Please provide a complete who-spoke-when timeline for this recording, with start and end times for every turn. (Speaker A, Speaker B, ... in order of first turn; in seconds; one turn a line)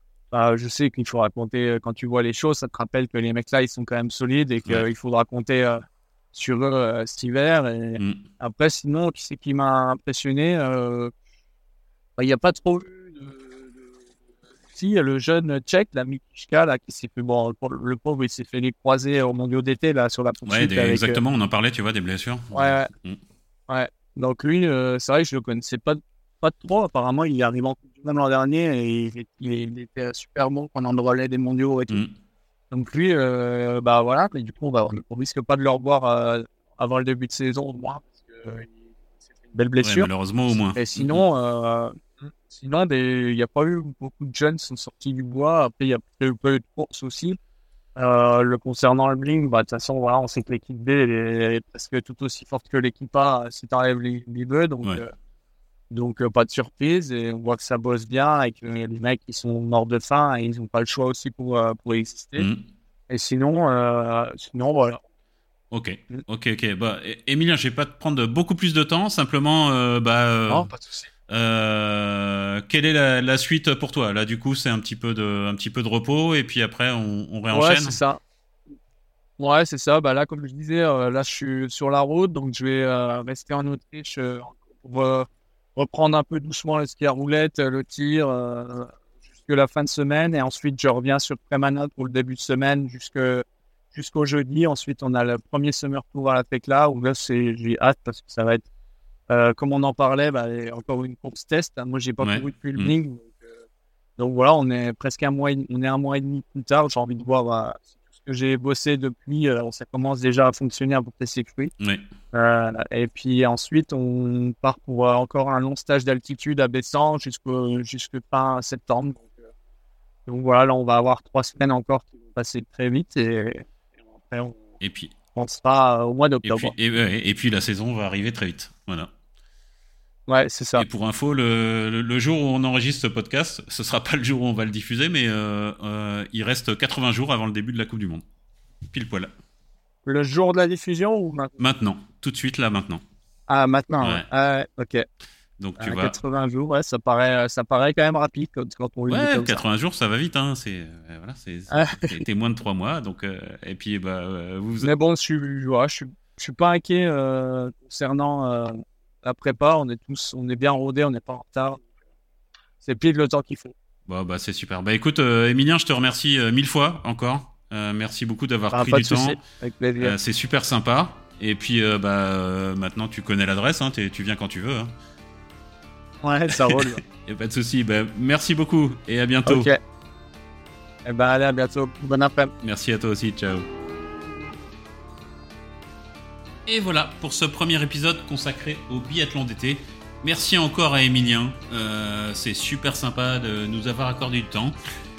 Speaker A: 0.3-11.1
Speaker A: 12.2-13.8
Speaker A: 14.7-21.2
Speaker B: 20.5-23.2
Speaker A: 22.5-22.9
Speaker A: 23.7-32.0
Speaker A: 32.7-38.7
Speaker A: 39.5-40.1
Speaker B: 39.8-41.2
Speaker A: 40.7-47.4
Speaker A: 48.0-55.1
Speaker A: 55.9-62.5
Speaker B: 62.4-62.6
Speaker A: 63.1-65.0
Speaker B: 65.7-70.7
Speaker A: 70.5-71.1
Speaker B: 71.3-78.0
Speaker A: 77.5-78.2
Speaker A: 79.4-88.9
Speaker A: 89.5-98.7
Speaker A: 99.3-103.4
Speaker B: 102.2-102.9
Speaker A: 104.2-111.7
Speaker B: 111.8-112.0
Speaker A: 112.3-119.4
Speaker A: 120.3-123.7
Speaker A: 124.3-124.6
Speaker B: 124.8-125.1
Speaker A: 125.3-126.7
Speaker B: 126.4-129.1
Speaker A: 130.3-130.9
Speaker B: 130.8-138.2
Speaker B: 138.9-139.3
Speaker A: 140.1-141.5
Speaker B: 141.6-143.0
Speaker A: 143.5-145.1
Speaker B: 145.6-146.2
Speaker A: 145.8-149.6
Speaker B: 149.1-154.9
Speaker A: 151.7-152.2
Speaker A: 154.8-161.8
Speaker A: 162.8-163.7
Speaker B: 164.1-169.4
Speaker A: 168.7-170.2
Speaker B: 170.0-174.9
Speaker A: 176.2-177.0
Speaker B: 176.5-179.7
Speaker A: 179.4-179.8
Speaker A: 181.1-182.5
Speaker B: 182.6-183.7
Speaker B: 186.7-194.8